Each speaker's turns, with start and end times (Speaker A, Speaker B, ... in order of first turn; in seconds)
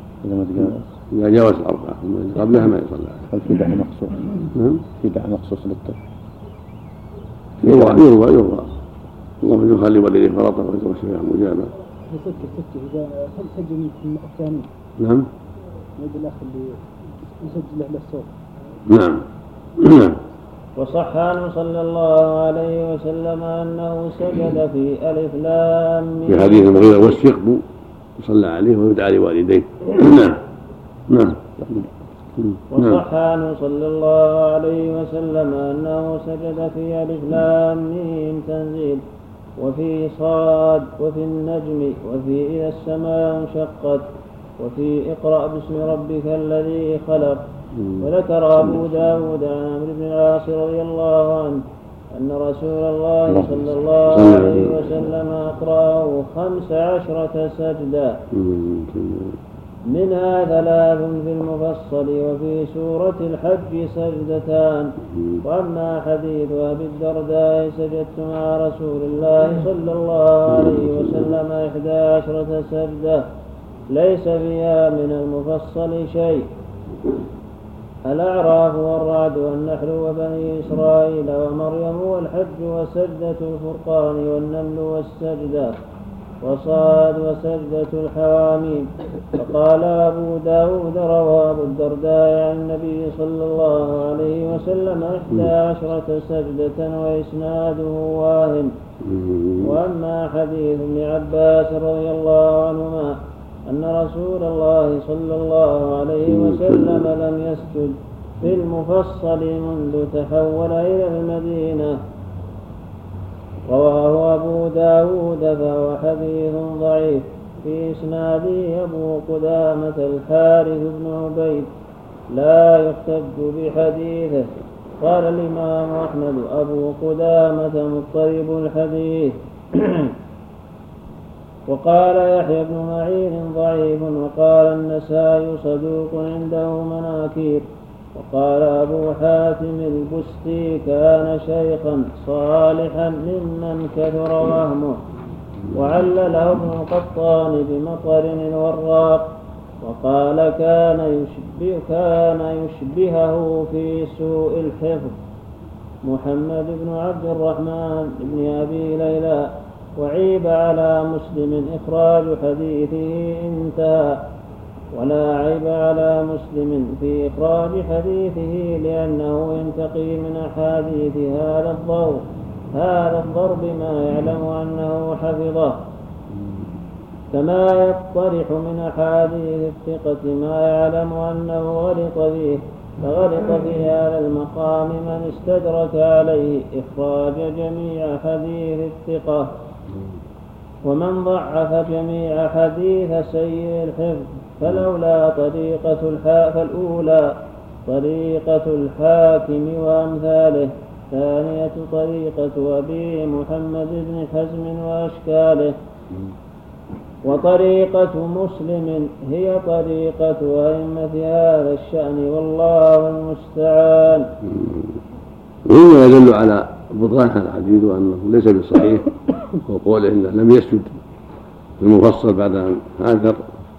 Speaker A: 0.2-0.8, 3.3-4.3, 5.0-6.0, 7.6-8.0
Speaker B: 1.1-3.2, 4.5-4.8, 7.6-8.7, 9.4-11.7, 15.0-15.3, 18.9-19.2, 19.8-20.2, 26.3-27.6, 28.2-30.4, 31.1-31.6, 32.4-33.0, 47.7-48.1, 54.1-54.8, 58.3-59.4, 70.6-70.9, 99.0-99.7, 106.3-107.0, 214.4-214.8, 215.7-220.9, 221.8-223.4
Speaker C: 12.1-14.7, 16.0-16.8, 17.4-18.3
Speaker D: 20.8-27.1, 32.7-39.0, 39.6-44.1, 44.6-47.4, 48.0-58.2, 59.9-73.2, 73.9-76.5, 78.1-85.7, 86.4-98.7, 99.6-103.2, 103.7-112.0, 113.7-121.7, 122.3-124.5, 125.0-130.1, 131.7-145.0, 145.7-149.3, 149.8-155.1, 156.0-164.2, 164.9-175.8, 177.3-189.5, 190.8-197.3, 197.9-205.7, 207.2-214.3